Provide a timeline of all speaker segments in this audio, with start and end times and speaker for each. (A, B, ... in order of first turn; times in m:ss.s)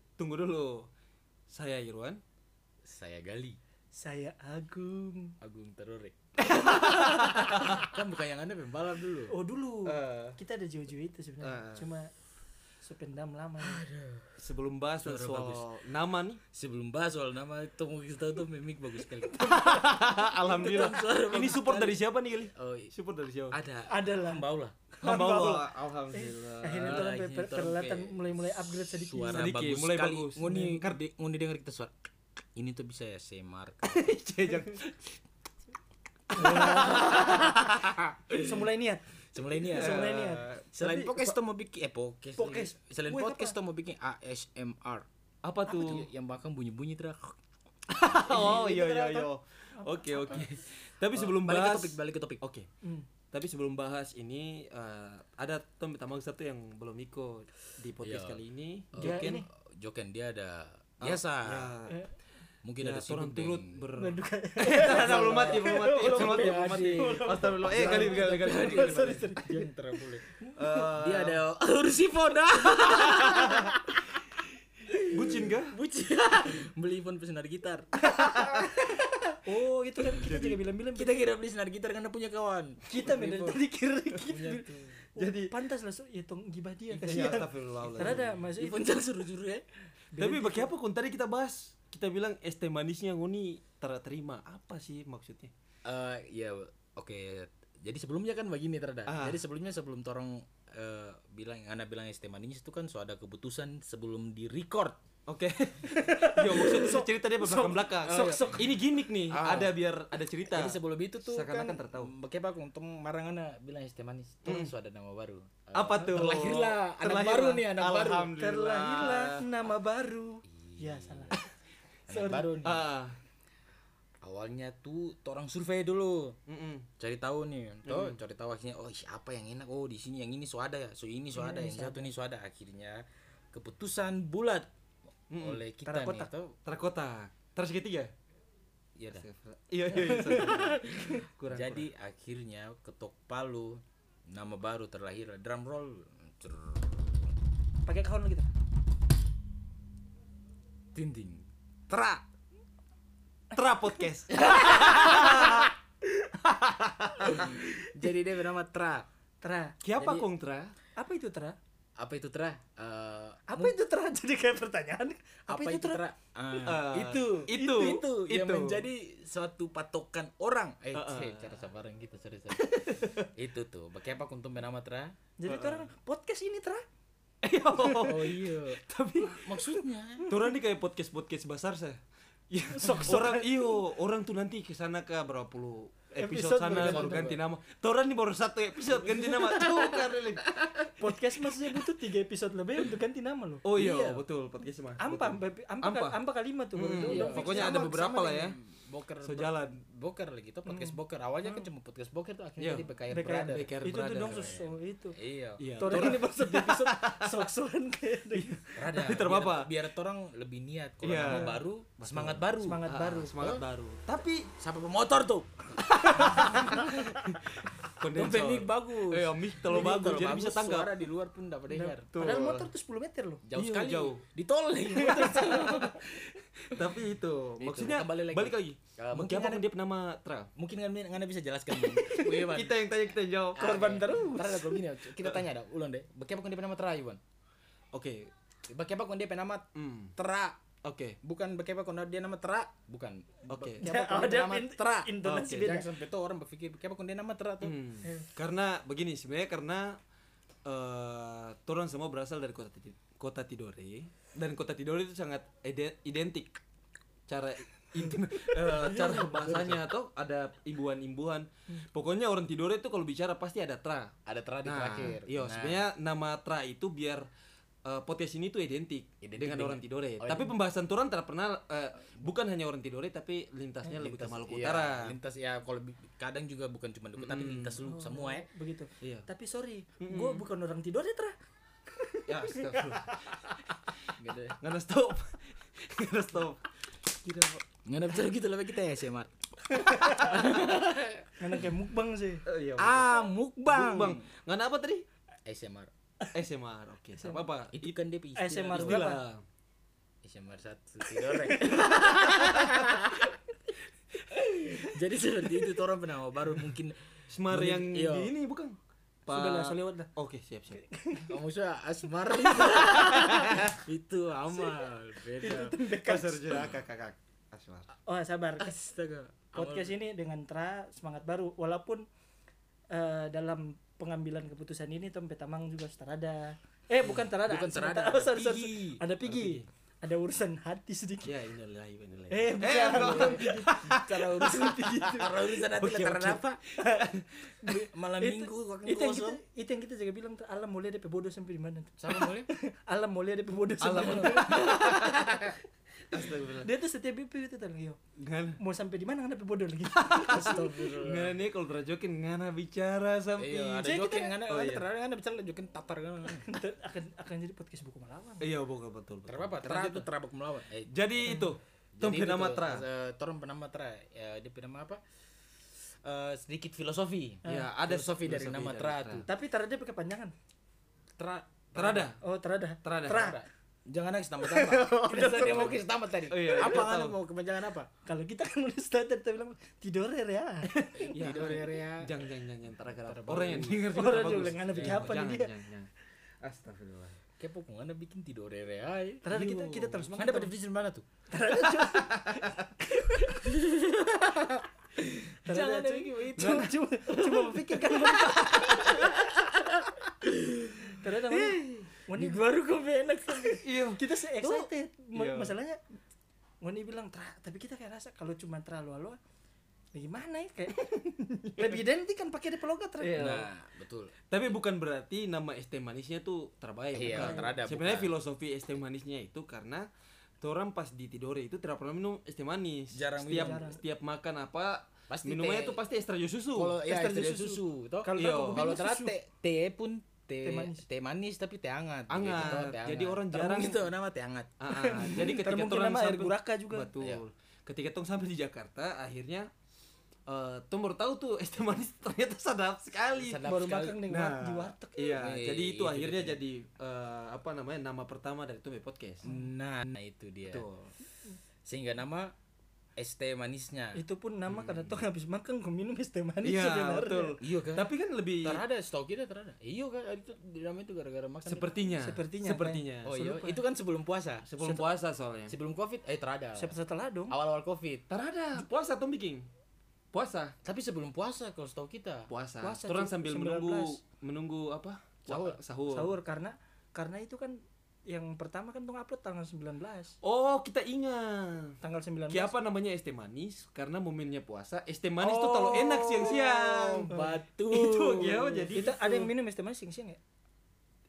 0:00.2-0:00.9 A
0:01.5-0:02.2 A
0:02.8-0:03.6 B
0:03.9-0:05.3 C
0:05.4-0:09.3 B
0:06.7-0:07.0 C
0:06.8-0:07.9 A
0:09.3-0:12.1 C
0:09.8-0:10.4 A
0:11.4-0:11.8 A
0:12.8-0:13.8 C
0:13.6-0:14.3 B
0:14.4-0:16.4 A
0:15.0-0:15.7 B
0:16.5-0:19.5 B
0:19.4-0:23.6 A
0:20.4-0:22.0 B
0:22.5-0:22.9 B
0:23.5-0:24.7 B
0:23.9-0:29.5 C
0:25.0-0:27.1 A
0:26.7-0:31.9 B
0:29.2-0:31.0 A
0:30.4-0:30.8 C
0:32.5-0:34.2 B
0:33.8-0:35.1 A
0:36.3-0:37.6 C
0:36.4-0:37.9 A
0:36.4-0:38.5 B
0:38.3-0:40.5 C
0:39.3-0:40.2 B
0:39.7-0:41.4 A
0:40.7-0:45.0 B
0:42.4-0:43.6 C
0:45.4-0:46.1 A
0:45.7-0:47.4 B
0:45.7-0:46.0 C
0:47.9-0:52.6 A
0:48.2-0:50.4 C
0:48.3-0:48.6 B
0:51.1-0:52.4 B
0:53.3-0:59.3 A
0:58.0-0:58.4 B
0:58.9-1:01.7 B
0:59.0-0:59.4 C
1:01.0-1:02.0 A
1:02.6-1:03.8 B
1:02.8-1:09.3 A
1:04.0-1:09.7 C
1:04.8-1:14.2 B
1:10.4-1:10.7 C
1:10.6-1:11.4 A
1:12.9-1:13.7 A
1:14.9-1:17.9 B
1:15.0-1:15.7 A
1:18.1-1:18.7 A
1:18.1-1:18.6 C
1:19.4-1:21.2 C
1:20.2-1:20.6 A
1:20.9-1:23.6 B
1:22.9-1:28.9 C
1:24.2-1:25.0 B
1:25.2-1:25.5 A
1:26.9-1:28.4 A
1:28.0-1:29.7 B
1:30.1-1:30.7 C
1:30.2-1:35.5 A
1:35.8-1:45.0 B
1:39.1-1:39.4 A
1:45.3-1:52.1 A
1:45.8-1:48.7 C
1:48.1-1:48.4 B
1:49.3-1:49.7 B
1:50.5-1:58.3 B
1:54.4-1:54.7 A
1:55.7-1:59.4 A
1:58.4-2:01.5 C
2:00.5-2:01.4 B
2:02.1-2:02.8 B
2:02.1-2:02.5 C
2:02.6-2:03.2 A
2:04.2-2:06.4 B
2:06.5-2:06.9 A
2:07.0-2:14.7 B
2:07.8-2:08.2 A
2:11.3-2:12.0 C
2:15.3-2:15.6 A
2:15.4-2:16.5 B
2:15.8-2:16.3 C
2:16.6-2:18.1 A
2:19.0-2:19.2 B
2:19.1-2:21.9 A
2:19.9-2:21.2 C
2:20.0-2:27.3 B
2:27.8-2:28.5 C
2:30.9-2:32.2 B
2:33.5-2:35.7 A
2:36.4-2:37.6 A
2:37.2-2:39.0 B
2:39.4-2:39.8 C
2:39.8-2:40.7 A
2:40.0-2:40.3 B
2:41.0-2:41.6 C
2:42.0-2:43.7 B
2:43.5-2:46.0 C
2:45.5-2:55.1 B
2:46.6-2:48.8 A
2:47.5-2:48.0 C
2:50.9-2:51.7 A
2:52.8-2:53.2 A
2:55.4-2:56.8 C
2:55.5-2:55.9 A
2:57.4-2:59.6 A
2:57.9-3:00.3 B
3:00.2-3:10.9 A
3:02.7-3:03.8 C
3:06.2-3:07.3 C
3:06.6-3:07.4 B
3:09.1-3:10.7 B
3:11.0-3:14.2 C
3:13.6-3:16.2 A
3:15.0-3:18.2 C
3:16.7-3:18.6 A
3:16.9-3:23.7 B
3:19.2-3:19.8 A
3:20.6-3:21.6 C
3:22.6-3:22.9 A
3:23.1-3:25.2 C
3:23.5-3:24.6 A
3:24.3-3:26.2 B
3:25.6-3:27.5 A
3:25.8-3:28.6 C
3:28.3-3:29.7 A
3:28.8-3:33.6 B
3:31.0-3:34.5 A
3:32.6-3:33.3 C
3:34.6-3:35.5 B
3:35.8-3:41.0 A
3:36.2-3:37.2 B
3:38.1-3:42.4 B
3:41.7-3:43.4 C
3:42.1-3:42.7 A
3:43.4-3:46.0 B
3:43.5-3:44.2 A
3:45.0-3:45.9 C
3:45.1-3:50.5 A
3:47.6-3:49.7 B
3:50.6-3:52.9 B
3:51.8-3:52.4 C
3:52.3-3:53.9 A
3:53.6-3:57.2 B
3:53.6-3:54.8 C
3:55.2-3:55.4 A
3:57.9-3:58.3 A
3:58.7-4:00.6 B
3:59.7-4:00.1 A
4:00.8-4:01.2 A
4:01.2-4:07.7 B
4:03.5-4:03.9 A
4:03.8-4:05.9 C
4:05.2-4:05.7 A
4:07.6-4:10.0 A
4:10.6-4:16.6 A
4:17.3-4:27.3 A
4:18.7-4:19.8 B
4:24.2-4:25.8 B
4:27.8-4:35.2 A
4:29.2-4:30.5 B
4:33.9-4:38.5 B
4:37.2-4:37.8 A
4:37.8-4:41.3 C
4:39.0-4:39.3 A
4:40.0-4:40.4 A
4:41.9-4:43.2 C
4:42.3-4:43.4 A
4:44.2-4:44.6 B
4:44.6-4:46.6 A
4:47.2-4:47.6 A
4:47.8-4:49.3 B
4:49.9-4:50.3 C
4:50.0-4:50.8 A
4:50.0-4:51.6 B
4:51.4-4:52.4 C
4:52.4-4:55.0 A
4:52.8-4:54.2 B
4:55.4-4:55.9 B
4:56.3-4:58.0 A
4:57.2-4:57.4 C
4:57.7-4:59.1 B
4:58.4-4:59.2 C
4:58.6-4:59.4 A
5:00.2-5:03.3 B
5:01.2-5:02.8 C
5:04.3-5:07.0 B
5:07.3-5:10.8 A
5:07.5-5:08.3 B
5:09.3-5:10.1 C
5:10.8-5:11.3 C
5:11.3-5:15.8 B
5:12.6-5:13.7 A
5:12.8-5:13.2 C
5:15.4-5:16.7 C
5:16.0-5:17.9 A
5:18.0-5:18.7 C
5:18.6-5:19.9 B
5:19.5-5:22.0 C
5:22.9-5:31.3 C
5:27.0-5:29.0 B
5:29.2-5:29.7 A
5:31.2-5:34.5 A
5:32.3-5:35.6 C
5:32.6-5:36.6 B
5:35.7-5:37.2 A
5:36.8-5:37.0 C
5:37.6-5:45.6 C
5:37.7-5:39.4 B
5:42.0-5:42.5 B
5:43.8-5:45.4 A
5:46.1-5:46.7 A
5:46.6-5:48.0 C
5:48.2-5:48.6 A
5:48.6-5:51.0 C
5:49.9-5:54.8 A
5:50.3-5:51.4 B
5:53.4-5:56.5 B
5:53.8-5:54.3 C
5:56.3-5:58.4 C
5:58.4-6:00.1 A
5:59.3-6:01.4 B
6:00.9-6:02.8 A
6:02.0-6:05.0 B
6:05.8-6:09.2 B
6:07.4-6:07.7 C
6:07.4-6:09.2 A
6:09.2-6:10.3 C
6:11.2-6:12.1 B
6:11.7-6:12.2 A
6:12.2-6:13.4 C
6:12.8-6:13.3 A
6:13.1-6:17.9 B
6:14.4-6:15.8 C
6:16.3-6:17.2 A
6:18.0-6:21.4 C
6:20.9-6:22.1 B
6:21.1-6:25.9 A
6:23.0-6:25.1 B
6:23.7-6:25.5 C
6:26.4-6:27.2 A
6:27.4-6:31.0 B
6:29.2-6:30.5 C
6:31.3-6:33.6 C
6:31.9-6:32.4 A
6:33.4-6:42.4 B
6:35.4-6:39.2 C
6:36.4-6:36.7 A
6:41.0-6:45.8 C
6:43.6-6:45.6 A
6:46.6-6:49.2 C
6:49.9-6:53.3 C
6:53.0-6:53.5 A
6:53.2-6:54.1 B
6:54.3-6:59.9 A
6:56.9-6:58.1 B
6:57.0-6:57.5 C
7:00.4-7:06.8 A
7:02.9-7:03.7 B
7:03.2-7:03.8 C
7:05.1-7:05.8 B
7:06.5-7:14.5 B
7:06.8-7:09.1 C
7:08.1-7:08.6 A
7:10.4-7:10.8 C
7:12.1-7:13.9 A
7:14.6-7:19.5 A
7:14.7-7:16.9 C
7:20.3-7:23.4 A
7:23.1-7:24.0 B
7:23.4-7:25.2 C
7:24.1-7:29.2 A
7:25.2-7:26.4 B
7:29.2-7:30.6 B
7:30.4-7:30.9 A
7:31.6-7:32.3 B
7:33.0-7:34.0 B
7:33.9-7:37.4 C
7:34.5-7:35.0 A
7:36.4-7:38.6 A
7:37.4-7:37.9 B
7:38.4-7:41.7 B
7:41.4-7:43.2 A
7:42.0-7:43.6 C
7:43.0-7:44.8 B
7:44.4-7:45.6 A
7:45.5-7:46.8 B
7:46.6-7:47.3 C
7:47.3-7:48.1 B
7:48.1-7:49.5 A
7:50.1-7:50.5 A
7:50.6-7:52.3 B
7:52.3-7:56.2 A
7:52.6-7:54.0 C
7:55.3-7:55.6 B
7:55.9-8:00.2 C
8:00.2-8:01.8 A
8:01.8-8:02.5 C
8:02.3-8:07.1 A
8:05.2-8:08.8 B
8:07.1-8:07.4 C
8:07.7-8:09.3 A
8:08.7-8:10.2 C